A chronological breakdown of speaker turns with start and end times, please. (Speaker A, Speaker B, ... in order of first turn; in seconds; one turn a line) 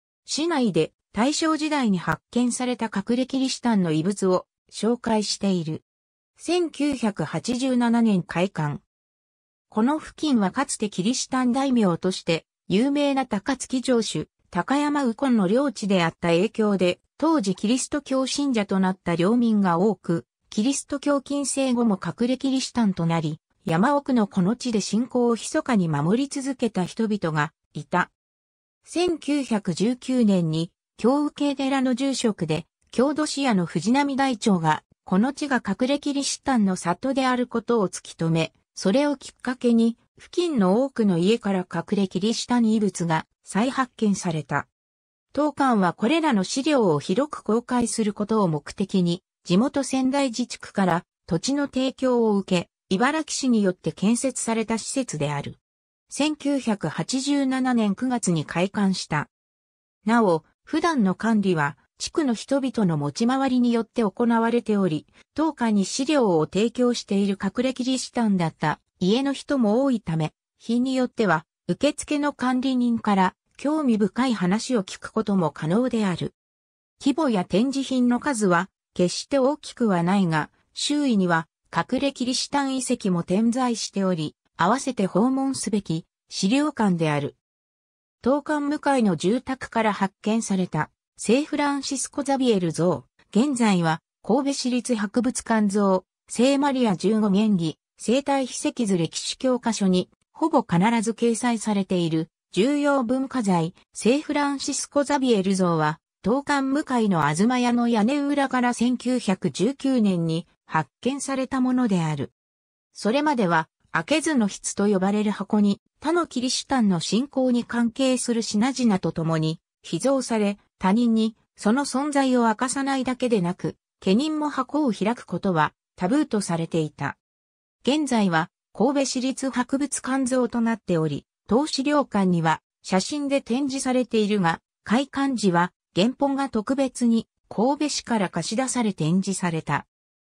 Speaker A: 0.2-5.8
Speaker A: 6.4-8.8
Speaker A: 9.7-28.1
Speaker A: 28.8-44.7
Speaker A: 45.3-59.3
Speaker A: 60.0-76.3
Speaker A: 77.0-87.4
Speaker A: 88.2-112.3
Speaker A: 112.9-127.2
Speaker A: 127.8-139.9